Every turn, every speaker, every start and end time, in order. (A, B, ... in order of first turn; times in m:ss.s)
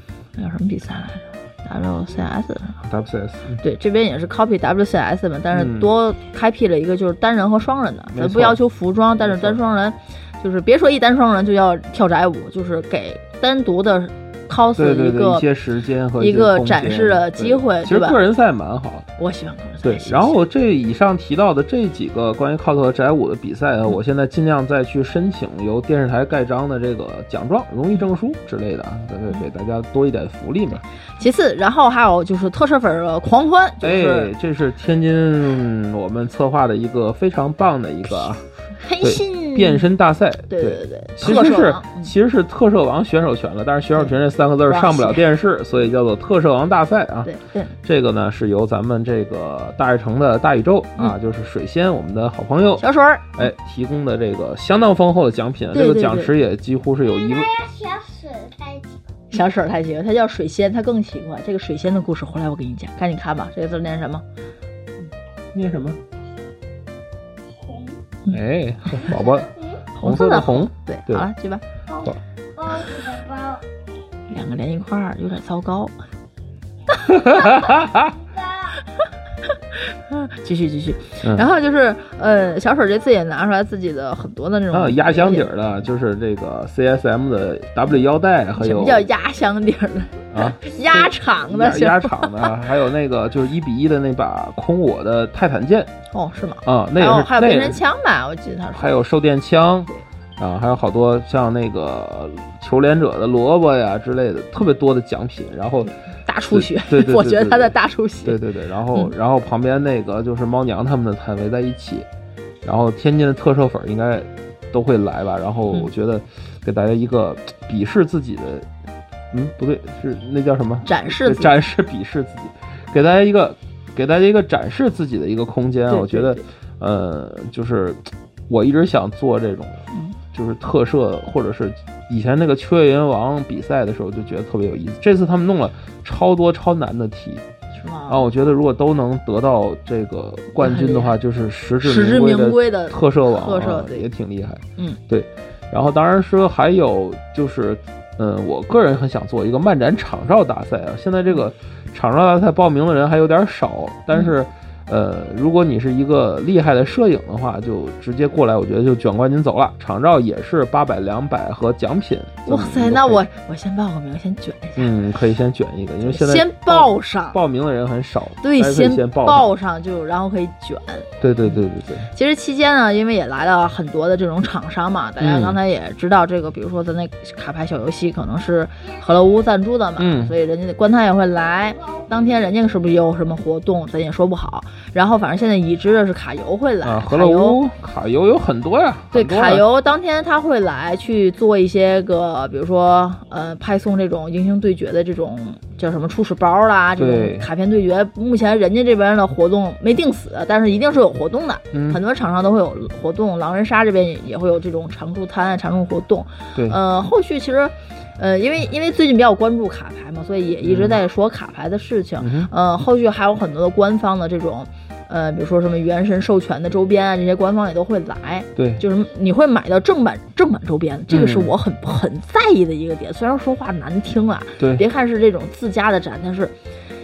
0:00.4-0:02.8 A
0:02.8-0:03.6 B
0:03.6-0:15.4 A
0:05.5-0:05.9 B
0:08.1-0:08.6 B
0:09.2-0:09.6 B
0:14.8-0:19.1 B
0:16.2-0:18.2 A
0:19.2-0:20.3 A
0:19.8-0:30.8 B
0:31.2-0:34.3 A
0:33.8-0:38.4 B
0:38.8-0:39.9 A
0:39.0-0:47.3 B
0:40.5-0:42.1 A
0:44.0-0:45.3 A
0:47.3-0:47.8 A
0:47.8-0:57.5 B
0:52.8-0:53.5 A
0:55.7-0:56.3 A
0:57.1-0:58.9 C
0:59.3-1:04.2 A
1:05.5-1:06.0 B
1:07.7-1:07.9 C
1:08.3-1:11.3 B
1:10.0-1:11.6 A
1:12.6-1:13.6 C
1:14.3-1:15.9 A
1:17.0-1:18.2 B
1:18.4-1:18.7 C
1:19.9-1:25.5 A
1:21.2-1:21.5 B
1:24.7-1:29.1 B
1:28.6-1:32.5 A
1:30.3-1:35.9 B
1:36.1-1:39.0 A
1:36.6-1:37.8 B
1:38.7-1:45.9 B
1:46.2-1:48.4 A
1:46.5-1:52.1 B
1:52.6-1:58.7 B
1:59.3-2:09.8 B
2:00.8-2:01.6 A
2:05.9-2:06.4 A
2:09.9-2:10.2 A
2:10.3-2:17.4 B
2:17.8-2:18.3 A
2:18.1-2:43.2 B
2:20.6-2:21.2 A
2:21.8-2:24.1 A
2:42.5-2:44.9 A
2:44.8-2:49.5 B
2:46.0-2:47.4 A
2:48.4-2:51.6 A
2:51.2-2:52.1 B
2:52.1-3:07.6 A
2:55.2-2:55.6 B
3:00.0-3:00.4 B
3:06.8-3:09.6 B
3:09.1-3:46.6 A
3:17.0-3:17.5 B
3:21.7-3:22.0 B
3:30.6-3:31.0 B
3:32.2-3:32.5 B
3:38.6-3:38.8 B
3:41.1-3:41.5 B
3:44.6-3:44.8 B